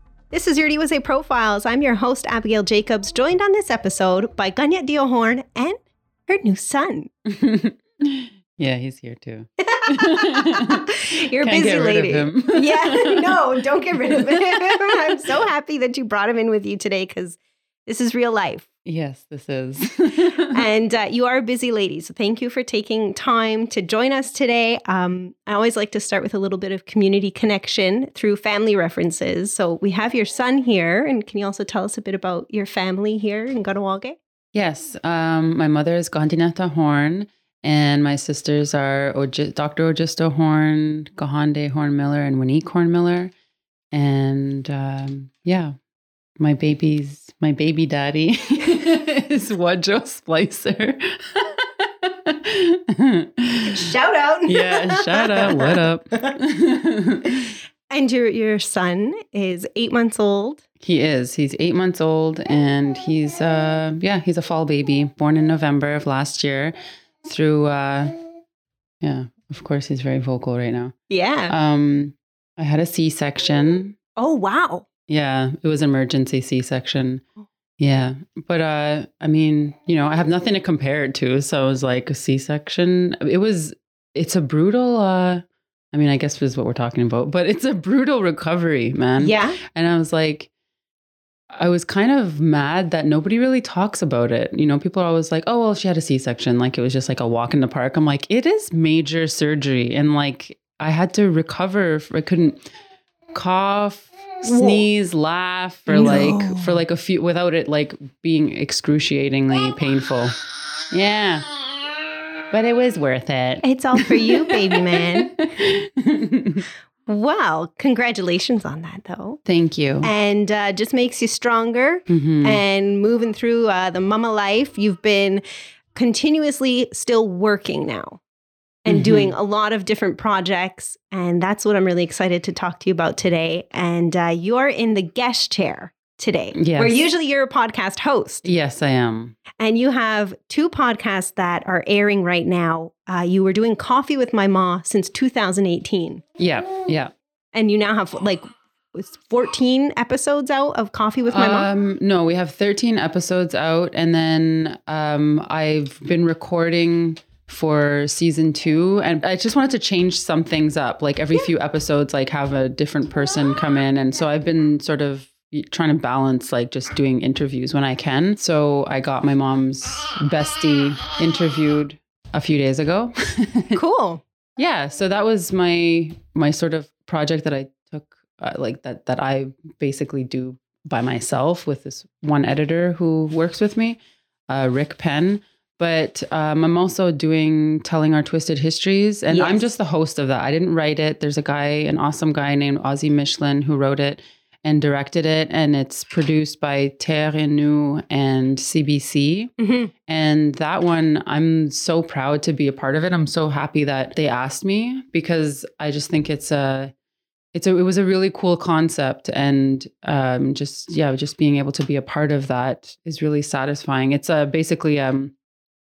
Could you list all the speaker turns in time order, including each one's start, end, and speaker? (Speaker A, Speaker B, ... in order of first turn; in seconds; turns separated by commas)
Speaker A: 0.3-7.1, Speaker B: 7.3-13.4, Speaker A: 9.6-18.7, Speaker B: 13.9-15.3, Speaker B: 18.9-20.6, Speaker A: 20.4-34.2, Speaker B: 34.5-43.3, Speaker B: 43.9-45.8, Speaker B: 46.4-53.9, Speaker A: 53.7-55.7, Speaker B: 54.5-57.5, Speaker A: 57.9-60.6, Speaker B: 60.8-68.2, Speaker B: 69.0-71.0, Speaker A: 71.1-71.5, Speaker B: 71.5-74.0, Speaker A: 74.2-74.8, Speaker B: 75.1-77.2, Speaker B: 77.8-90.5, Speaker A: 89.2-89.6, Speaker B: 91.5-102.6, Speaker B: 103.3-110.3, Speaker A: 104.5-104.8, Speaker A: 105.9-106.8, Speaker B: 110.9-111.5, Speaker B: 112.5-116.7, Speaker A: 113.6-115.3, Speaker A: 117.1-119.4, Speaker B: 119.5-120.1, Speaker A: 120.0-125.4, Speaker B: 122.1-122.6, Speaker A: 125.9-128.2, Speaker A: 128.8-138.4, Speaker B: 128.9-129.3, Speaker B: 136.6-137.0, Speaker B: 138.4-139.4, Speaker A: 139.6-146.2, Speaker B: 146.4-147.1, Speaker A: 147.5-151.7, Speaker B: 151.3-173.8, Speaker A: 173.8-174.2, Speaker B: 174.6-199.5, Speaker A: 189.3-189.7, Speaker A: 199.6-199.9, Speaker B: 200.1-206.9, Speaker B: 207.5-215.3